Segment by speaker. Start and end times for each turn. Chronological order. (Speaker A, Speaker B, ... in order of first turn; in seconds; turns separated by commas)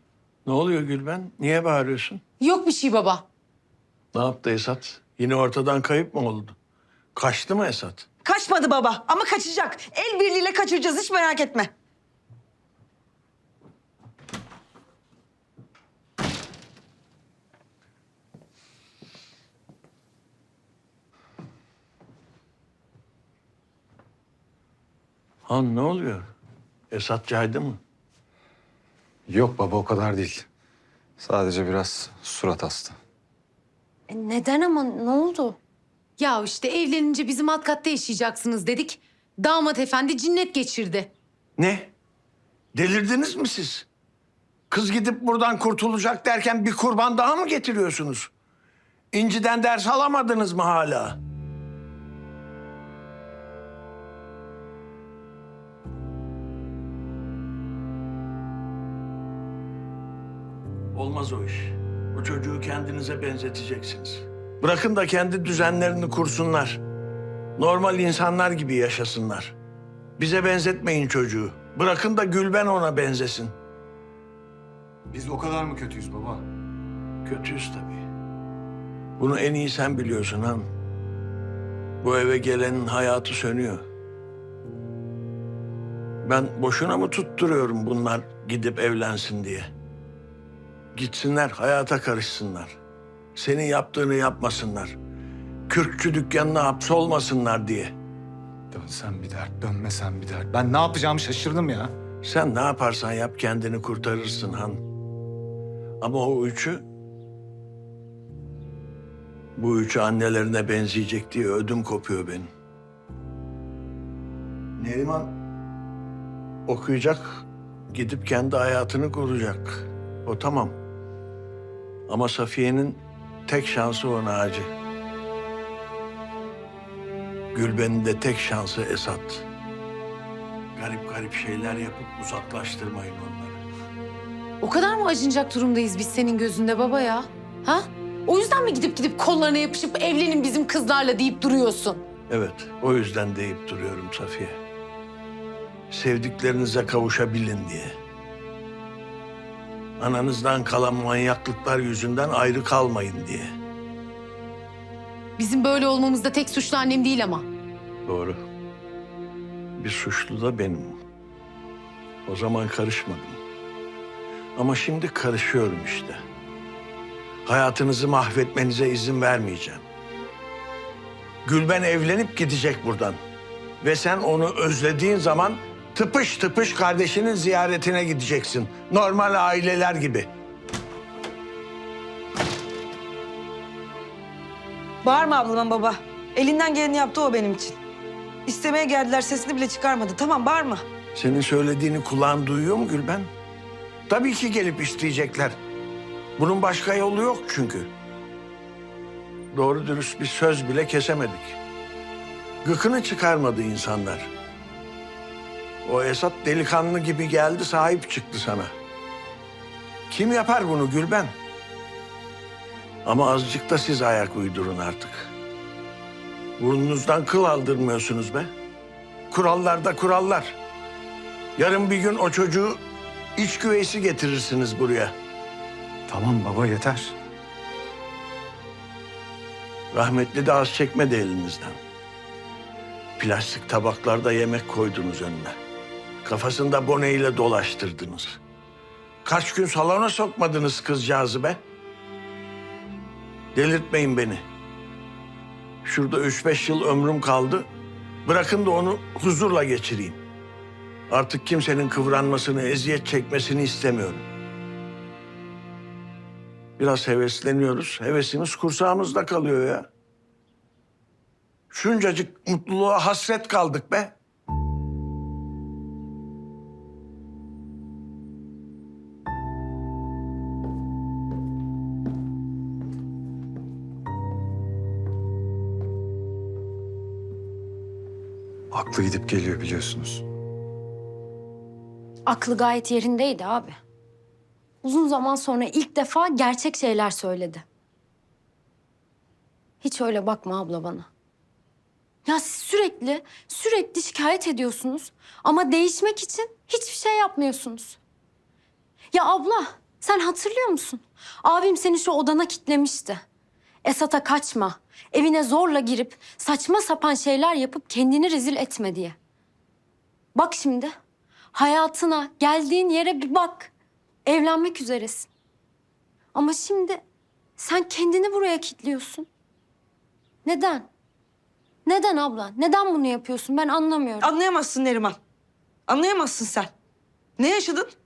Speaker A: 0.5-2.2, Speaker B: 2.4-3.2, Speaker A: 4.1-6.5, Speaker A: 7.1-8.1, Speaker C: 8.2-11.7, Speaker A: 25.4-26.3, Speaker A: 26.9-27.8, Speaker D: 29.3-30.5, Speaker D: 31.2-33.0, Speaker E: 34.1-35.6, Speaker B: 36.2-41.1, Speaker A: 41.6-41.9, Speaker A: 42.7-43.9, Speaker A: 44.7-48.3, Speaker A: 49.1-51.2, Speaker A: 60.9-66.8, Speaker A: 67.6-69.5, Speaker A: 70.2-73.5, Speaker D: 75.1-76.5, Speaker A: 77.2-78.1, Speaker A: 79.2-80.7, Speaker A: 82.0-83.8, Speaker A: 86.2-89.7, Speaker A: 90.9-92.8, Speaker A: 93.3-95.0, Speaker A: 95.7-97.9, Speaker D: 98.7-101.9, Speaker A: 102.2-104.8, Speaker A: 106.0-106.8, Speaker A: 109.5-112.5, Speaker A: 114.8-115.3, Speaker A: 116.7-120.8, Speaker A: 122.1-124.7, Speaker A: 127.5-129.4, Speaker A: 130.8-133.6, Speaker B: 134.6-142.0, Speaker A: 142.3-144.6, Speaker A: 145.9-148.0, Speaker A: 150.0-153.5, Speaker B: 155.4-157.5, Speaker A: 158.1-158.4, Speaker A: 159.8-161.0, Speaker A: 162.2-163.4, Speaker A: 164.6-166.2, Speaker A: 167.4-169.8, Speaker A: 171.4-173.2, Speaker A: 173.8-180.3, Speaker C: 185.0-187.8, Speaker C: 188.4-190.8, Speaker A: 191.1-193.3, Speaker A: 194.1-195.6, Speaker A: 196.4-197.9, Speaker A: 199.5-201.6, Speaker A: 202.6-204.3, Speaker A: 205.8-208.7, Speaker A: 210.1-211.3, Speaker A: 213.0-215.3, Speaker A: 216.6-218.5, Speaker A: 219.3-220.6, Speaker A: 221.6-222.8, Speaker A: 223.3-225.1, Speaker D: 226.1-227.1, Speaker A: 229.9-231.8, Speaker A: 233.2-235.6, Speaker A: 236.2-238.4, Speaker A: 239.2-241.6, Speaker A: 243.5-244.4, Speaker A: 245.8-247.7, Speaker A: 248.2-250.2, Speaker A: 251.1-254.2, Speaker A: 256.8-259.9, Speaker A: 261.7-264.1, Speaker D: 278.7-280.2, Speaker E: 282.2-283.8, Speaker E: 284.8-287.6, Speaker E: 289.8-291.1, Speaker E: 292.2-298.0, Speaker E: 299.1-303.2, Speaker E: 303.8-309.1, Speaker E: 310.3-310.9, Speaker E: 311.5-313.7, Speaker E: 314.2-315.3, Speaker E: 316.3-317.0, Speaker E: 317.6-319.3, Speaker E: 320.4-320.9, Speaker E: 321.9-324.3, Speaker C: 324.2-325.2, Speaker C: 325.9-326.7, Speaker C: 327.4-327.9